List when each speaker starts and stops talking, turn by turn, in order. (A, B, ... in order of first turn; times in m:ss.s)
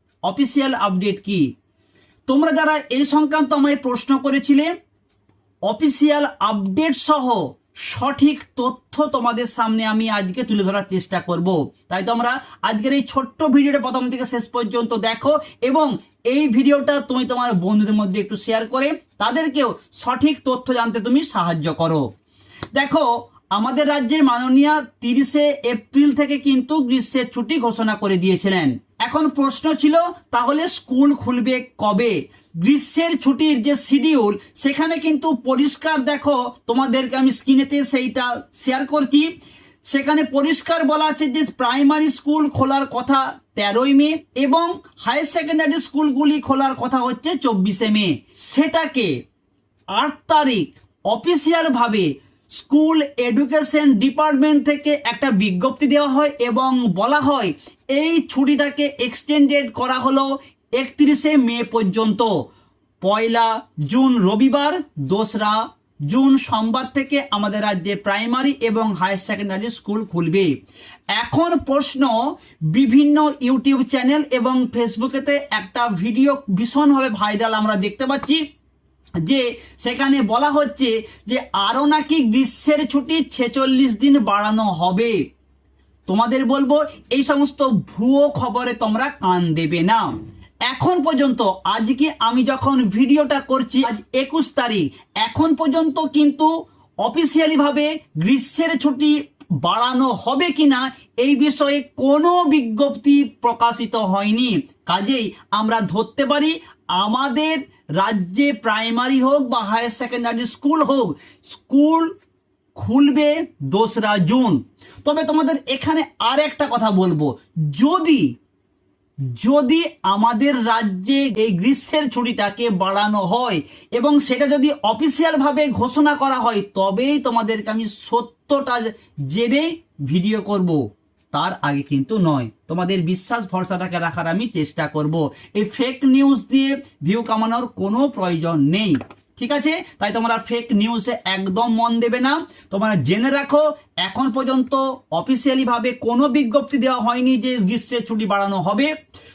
0:00.2-0:01.4 A
0:02.3-0:04.7 A
0:05.7-0:22.0 A
0:22.7-0:39.3 A
0:39.9-0:49.1 A
0:49.9-0:52.1 A
0:52.6-1:02.3 A
1:03.0-1:05.6 A
1:06.1-1:10.5 A
1:11.1-1:12.2 A
1:12.7-1:18.4 A
1:19.2-1:25.2 A
1:26.1-1:30.1 A
1:30.7-1:36.5 A
1:37.0-1:52.1 A
1:52.8-1:58.2 A
1:59.4-2:10.8 A
2:11.3-2:28.9 A